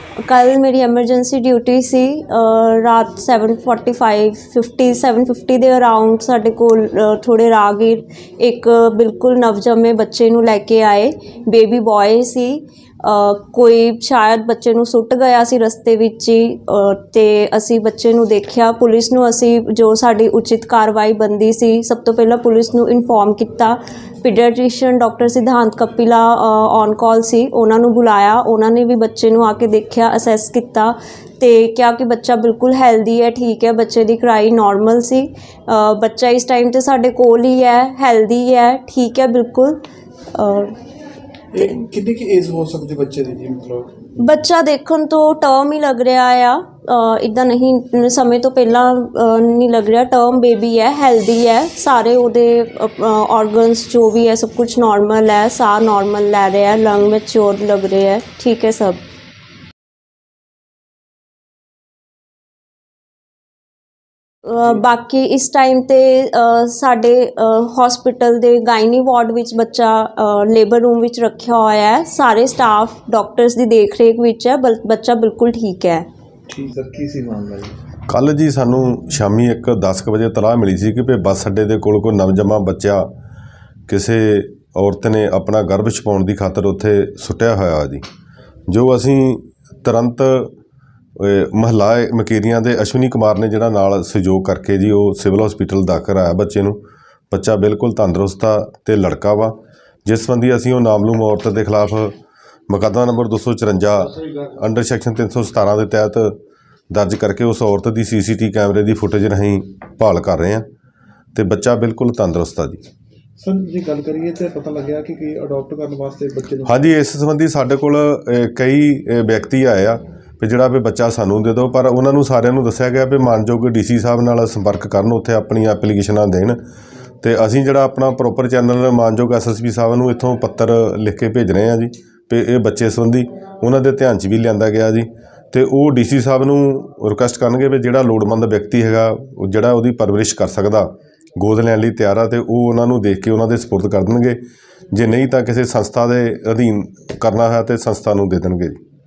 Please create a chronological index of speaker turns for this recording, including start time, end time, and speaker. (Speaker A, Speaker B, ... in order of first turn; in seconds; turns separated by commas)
Speaker A: 0.2-40.8, Speaker B: 41.5-43.9, Speaker A: 44.2-59.0, Speaker A: 64.4-76.0, Speaker B: 76.5-77.7, Speaker C: 78.1-83.1, Speaker C: 83.9-88.0, Speaker C: 88.7-90.5, Speaker C: 91.2-102.2, Speaker C: 102.7-106.4, Speaker C: 106.9-110.7, Speaker C: 111.3-112.8, Speaker B: 113.4-116.8, Speaker C: 116.6-126.6, Speaker C: 127.2-148.8